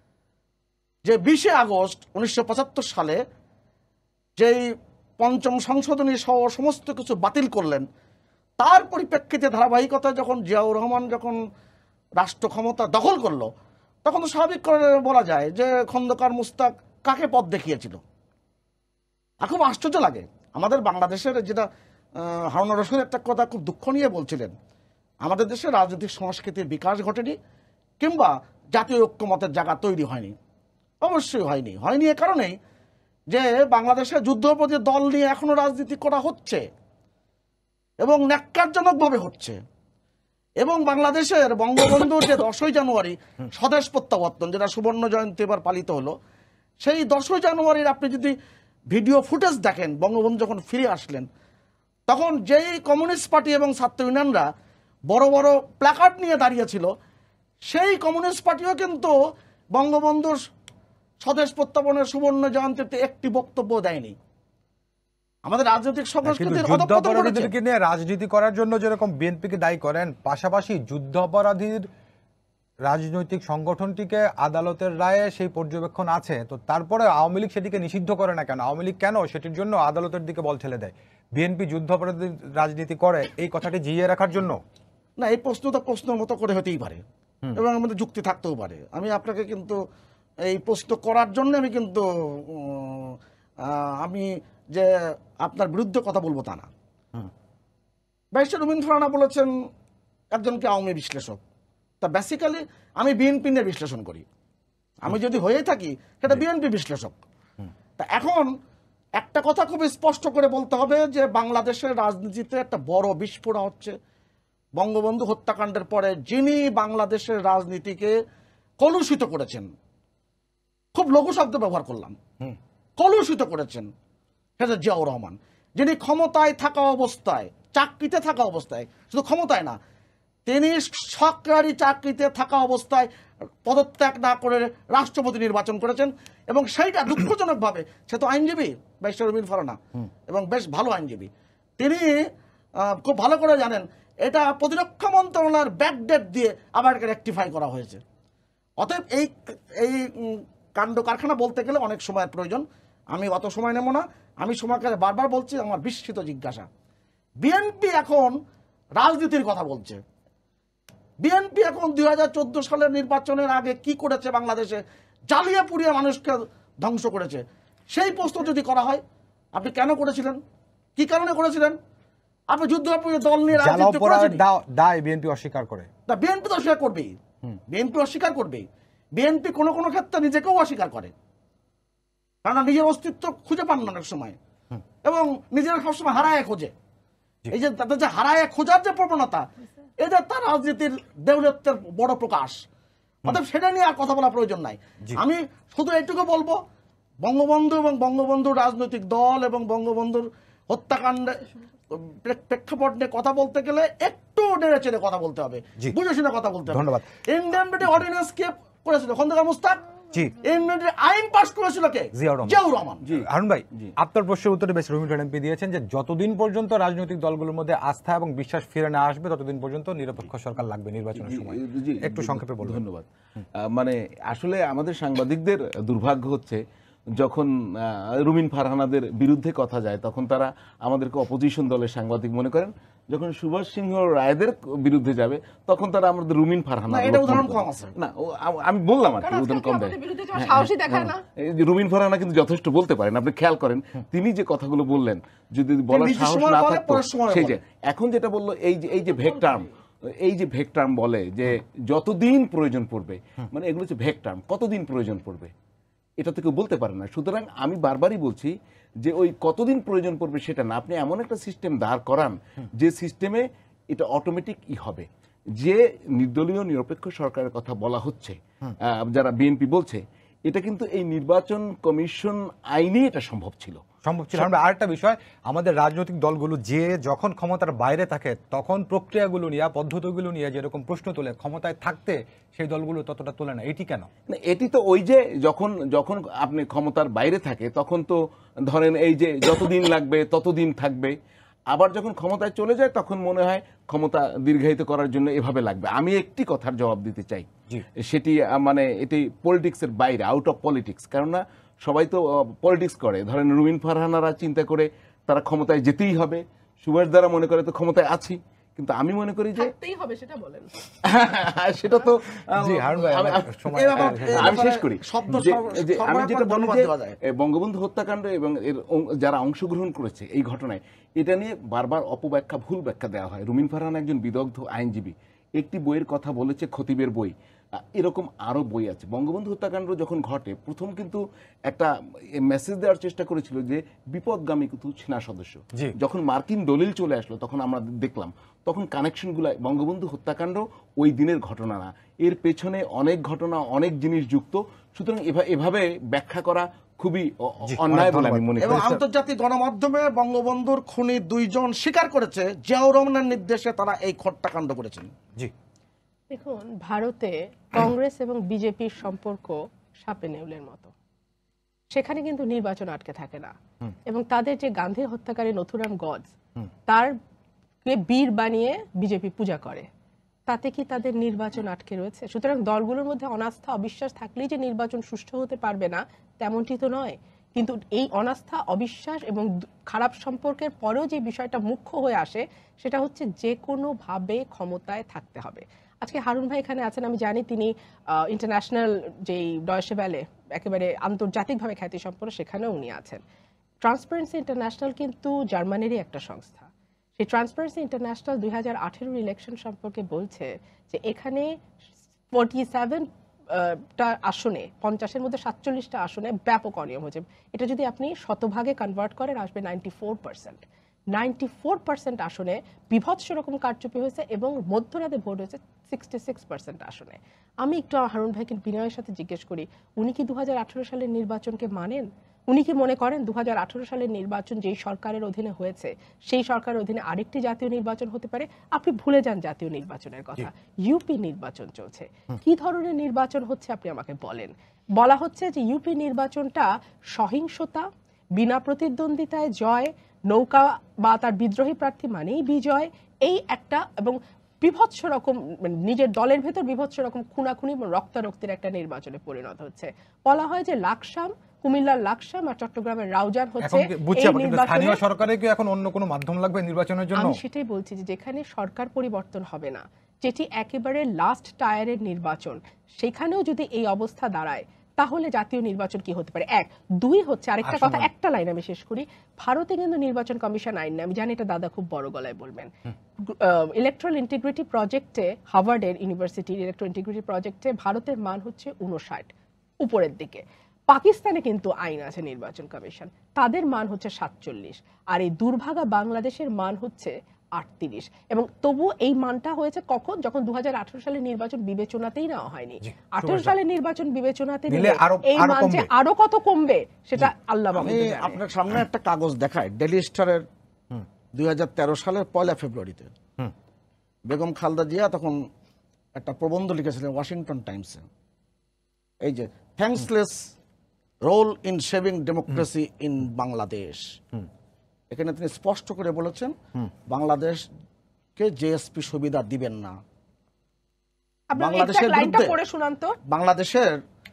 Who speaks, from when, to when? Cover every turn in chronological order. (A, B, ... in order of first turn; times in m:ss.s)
0:01.0-0:03.2 A
0:04.4-0:07.8 A
0:08.6-0:11.4 A
0:12.2-0:13.5 A
0:14.0-0:18.0 A
0:19.4-0:24.5 A
0:25.2-0:27.4 A
0:28.0-0:30.3 A
0:31.0-0:32.6 A
0:33.3-0:36.6 A
0:38.0-0:39.6 A
0:40.6-0:46.1 A
0:46.8-0:48.3 A
0:48.9-0:51.3 A
0:52.1-0:54.5 A
0:55.1-0:56.9 A
0:57.7-0:59.1 A
0:59.7-1:00.4 A
1:01.2-1:04.2 A
1:05.4-1:07.5 A
1:06.2-1:11.9 B
1:12.8-1:24.6 B
1:25.2-1:27.0 A
1:27.6-1:29.8 A
1:30.4-1:34.9 A
1:35.4-1:36.7 A
1:38.3-1:39.5 A
1:40.3-1:41.4 A
1:42.0-1:44.2 A
1:45.0-1:47.2 A
1:48.0-1:48.5 A
1:49.2-1:53.9 A
1:54.8-1:58.2 A
1:58.8-1:59.7 A
2:00.9-2:02.2 A
2:03.0-2:03.9 A
2:04.6-2:09.8 A
2:10.4-2:13.1 A
2:13.6-2:21.3 A
2:21.8-2:22.2 A
2:22.8-2:28.0 A
2:28.8-2:36.7 A
2:37.4-2:38.4 A
2:39.0-2:40.0 A
2:41.2-2:49.0 A
2:49.5-2:50.4 A
2:51.0-2:51.8 A
2:52.5-2:54.4 A
2:53.5-2:55.9 B
2:56.1-2:57.1 A
2:57.7-2:58.6 A
2:59.2-3:01.1 A
3:02.4-3:04.4 A
3:05.0-3:06.7 A
3:07.5-3:09.4 A
3:10.0-3:12.6 A
3:13.2-3:16.6 A
3:17.2-3:29.8 A
3:26.7-3:27.0 B
3:30.4-3:33.0 A
3:32.1-3:32.6 B
3:33.0-3:33.9 C
3:33.1-3:42.8 B
3:41.2-3:43.0 C
3:43.6-3:46.6 C
3:47.2-4:09.7 C
3:56.9-3:57.9 A
3:59.2-4:01.2 D
4:05.9-4:07.6 A
4:09.0-4:09.7 D
4:10.2-4:15.5 C
4:16.2-4:25.0 C
4:25.6-4:33.8 C
4:34.0-4:44.1 B
4:44.3-4:51.2 C
4:51.7-5:09.7 C
5:09.6-5:10.7 D
5:11.0-5:31.9 C
5:12.6-5:14.6 B
5:13.7-5:17.2 A
5:32.4-5:49.0 C
5:47.7-5:49.0 B
5:48.6-5:55.1 A
5:56.3-6:00.9 D
6:01.9-6:03.5 D
6:04.0-6:06.3 D
6:06.9-6:07.1 D
6:07.8-6:09.9 D
6:10.5-6:33.2 D
6:33.8-6:41.5 D
6:42.3-6:50.6 D
6:51.1-7:35.0 D
7:33.6-7:37.4 B
7:37.1-7:52.7 D
7:47.6-7:48.1 B
7:53.2-7:59.3 D
7:59.8-8:18.4 D
8:12.8-8:13.5 B
8:14.7-8:15.9 B
8:17.7-8:20.4 A
8:21.3-8:23.1 A
8:24.3-8:25.4 A
8:26.2-8:28.0 A
8:29.2-8:30.5 A
8:31.2-8:34.0 A
8:35.1-8:36.5 A
8:37.1-8:37.6 A
8:38.4-8:40.0 A
8:41.5-8:43.1 D
8:41.6-8:42.6 A
8:43.3-8:44.0 A